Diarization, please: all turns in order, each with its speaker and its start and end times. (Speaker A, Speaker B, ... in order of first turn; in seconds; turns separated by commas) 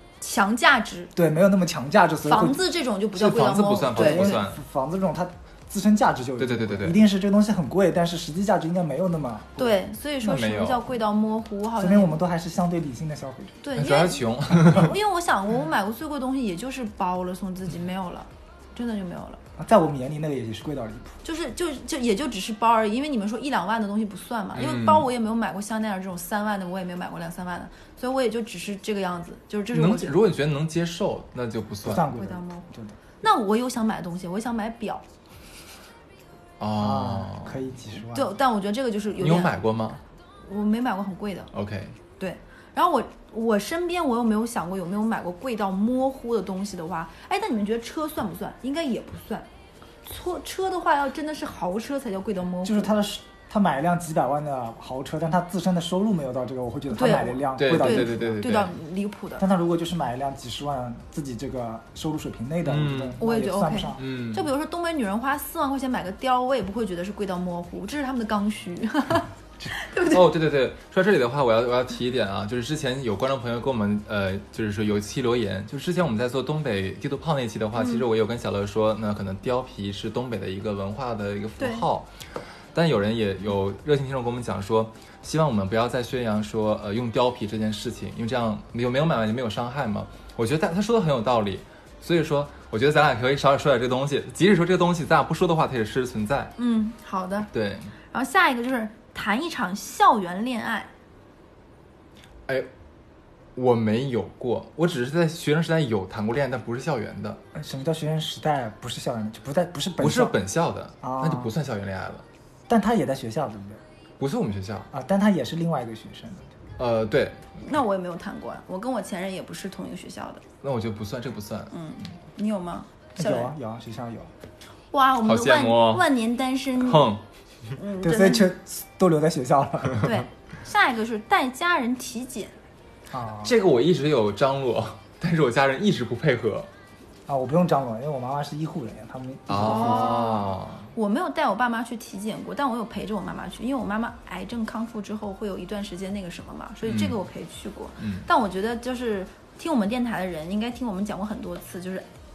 Speaker A: 0.2-1.1, Speaker B: 1.1-2.6, Speaker A: 2.2-4.4, Speaker C: 3.1-4.6, Speaker B: 3.9-9.7, Speaker C: 6.4-7.0, Speaker A: 9.6-12.2, Speaker C: 10.2-10.9, Speaker B: 11.8-13.6, Speaker A: 13.6-19.4, Speaker C: 13.7-15.0, Speaker B: 19.6-21.2, Speaker A: 21.2-30.2, Speaker C: 24.5-25.1, Speaker C: 29.7-32.1, Speaker B: 31.8-33.0, Speaker A: 32.1-32.6, Speaker A: 33.2-35.0, Speaker C: 36.6-37.6, Speaker B: 36.8-38.3, Speaker A: 38.1-39.6, Speaker C: 39.2-40.0, Speaker A: 40.4-41.5, Speaker C: 41.5-42.0, Speaker A: 42.2-49.5, Speaker A: 50.0-52.9, Speaker B: 52.6-58.4, Speaker A: 56.9-59.4, Speaker C: 57.5-58.7, Speaker B: 59.4-64.0, Speaker C: 62.6-63.2, Speaker A: 63.2-70.2, Speaker C: 64.0-64.5, Speaker C: 70.0-82.1, Speaker A: 77.8-78.0, Speaker A: 81.6-81.8, Speaker C: 82.7-96.5, Speaker A: 96.6-97.5, Speaker C: 97.5-97.9, Speaker A: 98.1-100.9, Speaker C: 103.5-107.4, Speaker B: 107.5-110.3, Speaker C: 110.0-112.2, Speaker B: 111.0-111.5, Speaker B: 112.7-113.8, Speaker C: 114.2-114.9, Speaker B: 114.9-116.5, Speaker C: 116.8-117.5, Speaker A: 117.6-120.4, Speaker C: 120.6-121.7, Speaker A: 121.7-123.5, Speaker B: 123.2-124.3, Speaker A: 124.9-127.1, Speaker C: 125.2-126.1, Speaker C: 126.8-127.2, Speaker A: 127.8-128.5, Speaker B: 128.0-130.1, Speaker A: 130.0-132.5, Speaker B: 133.1-133.5, Speaker C: 133.4-136.7, Speaker B: 137.3-140.2, Speaker C: 139.5-140.9, Speaker A: 139.5-152.1, Speaker C: 146.8-147.2, Speaker C: 148.0-148.2